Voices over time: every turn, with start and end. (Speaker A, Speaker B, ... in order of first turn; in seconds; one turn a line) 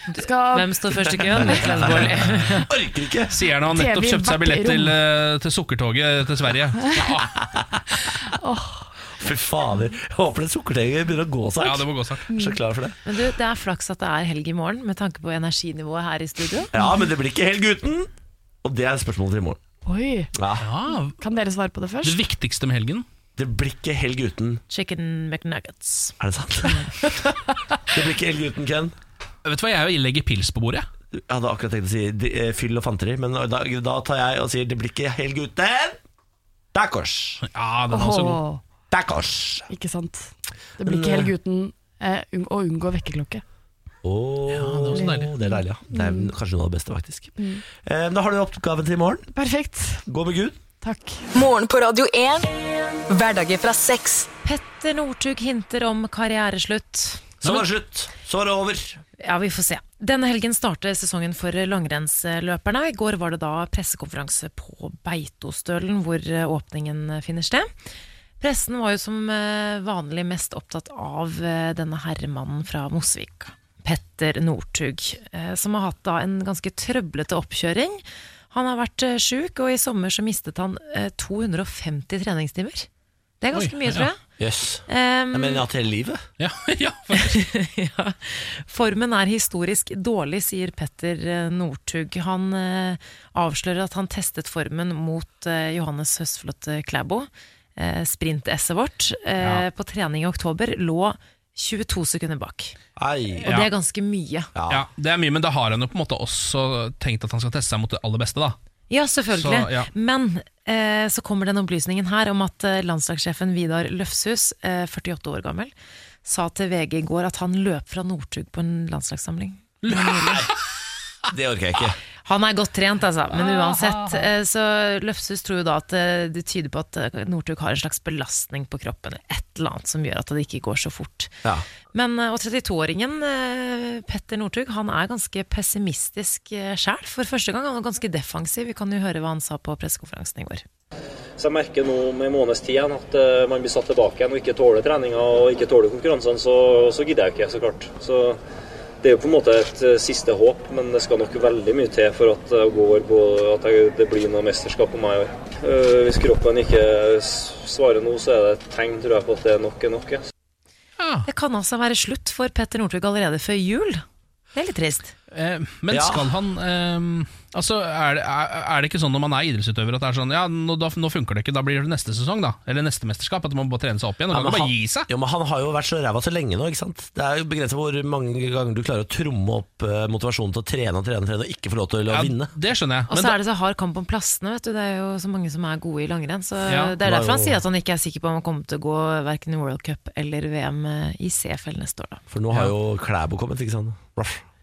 Speaker A: 0.1-1.5
Speaker B: 0.1-2.7
Speaker C: 1.4-2.6
Speaker D: 2.0-3.3
Speaker C: 3.3-7.3
Speaker A: 3.6-5.0
Speaker D: 7.0-7.7
Speaker A: 8.2-8.9
Speaker D: 9.2-13.0
Speaker C: 11.6-12.3
Speaker A: 12.3-12.6
Speaker B: 13.1-16.7
Speaker D: 16.7-18.1
Speaker D: 18.6-19.6
Speaker A: 19.9-20.3
Speaker D: 20.4-20.7
Speaker C: 20.6-21.2
Speaker A: 20.9-22.2
Speaker C: 22.0-23.1
Speaker D: 23.4-24.6
Speaker B: 24.7-26.1
Speaker D: 26.2-26.9
Speaker B: 26.7-27.2
Speaker D: 27.9-28.9
Speaker C: 29.4-30.9
Speaker D: 31.1-36.0
Speaker D: 36.7-37.4
Speaker C: 37.4-38.4
Speaker A: 37.9-38.4
Speaker D: 38.9-39.7
Speaker A: 39.7-43.4
Speaker D: 40.8-41.3
Speaker D: 44.0-49.3
Speaker C: 44.5-45.3
Speaker A: 44.9-46.3
Speaker A: 47.4-47.6
Speaker A: 49.3-50.0
Speaker D: 50.1-50.6
Speaker A: 50.8-51.3
Speaker E: 51.3-52.5
Speaker E: 53.1-54.3
Speaker B: 54.4-57.3
Speaker D: 57.4-59.0
Speaker B: 59.2-67.7
Speaker B: 68.4-82.9
Speaker B: 83.4-84.2
Speaker C: 83.5-84.1
Speaker D: 84.4-86.2
Speaker B: 84.9-85.7
Speaker C: 86.4-87.4
Speaker B: 87.1-102.8
Speaker D: 103.0-103.5
Speaker B: 103.4-104.5
Speaker D: 104.5-104.9
Speaker C: 104.7-108.6
Speaker B: 108.9-115.7
Speaker C: 109.3-109.9
Speaker B: 116.2-120.5
Speaker C: 119.8-120.5
Speaker D: 121.3-122.0
Speaker B: 122.2-131.3
Speaker C: 123.4-124.3
Speaker B: 131.9-140.6
Speaker F: 141.4-148.4
Speaker F: 149.0-160.2
Speaker C: 161.0-161.3
Speaker B: 161.3-165.1
Speaker C: 165.3-175.1
Speaker D: 165.9-166.3
Speaker D: 174.3-182.5
Speaker C: 182.1-183.4
Speaker B: 183.1-192.2
Speaker C: 186.7-186.9
Speaker D: 187.0-187.6
Speaker D: 192.3-194.4